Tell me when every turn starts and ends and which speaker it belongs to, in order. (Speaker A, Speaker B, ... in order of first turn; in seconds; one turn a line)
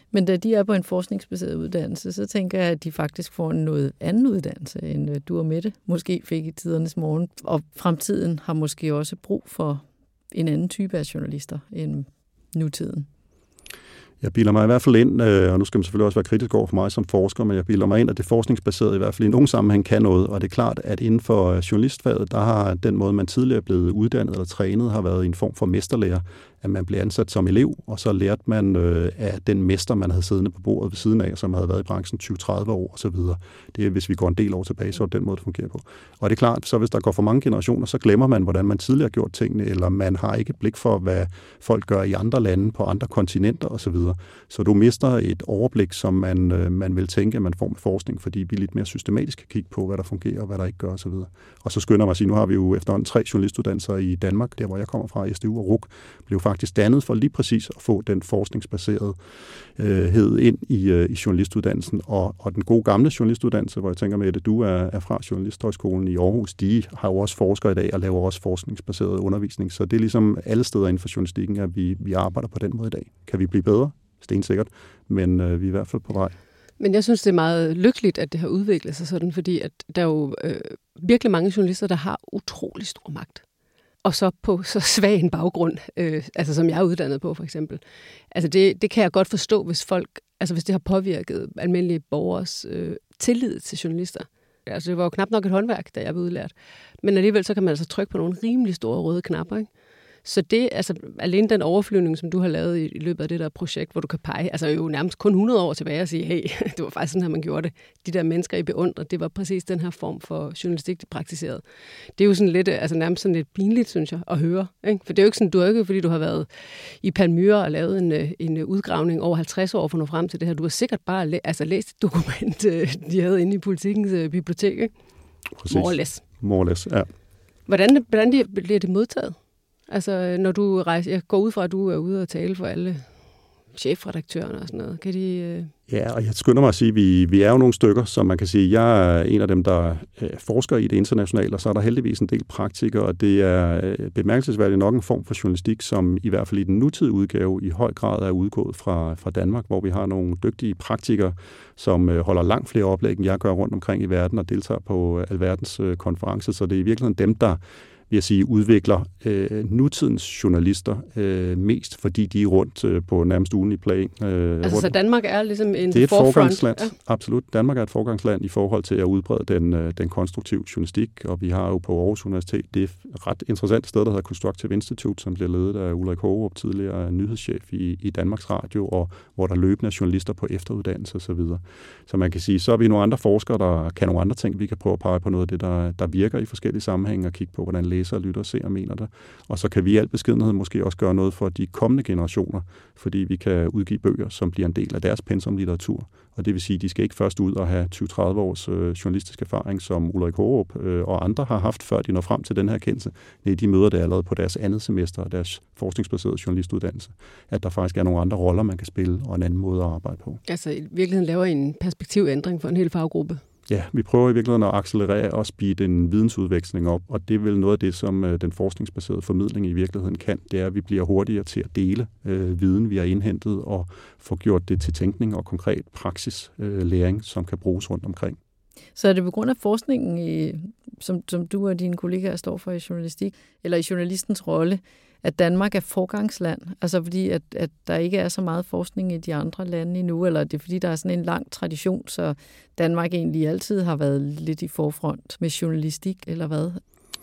Speaker A: 0.1-13.1
Speaker B: 14.2-59.2
Speaker B: 59.8-76.3
Speaker C: 76.8-83.4
Speaker C: 84.0-99.7
Speaker C: 100.2-111.6
Speaker C: 112.2-124.9
Speaker B: 125.6-127.1
Speaker C: 125.7-126.2
Speaker C: 127.7-129.4
Speaker C: 129.9-133.1
Speaker C: 133.7-135.7
Speaker B: 135.9-164.9
Speaker C: 164.6-166.9
Speaker B: 165.9-210.4
Speaker C: 210.5-213.4
Speaker B: 213.7-228.4
Speaker A: 228.9-246.8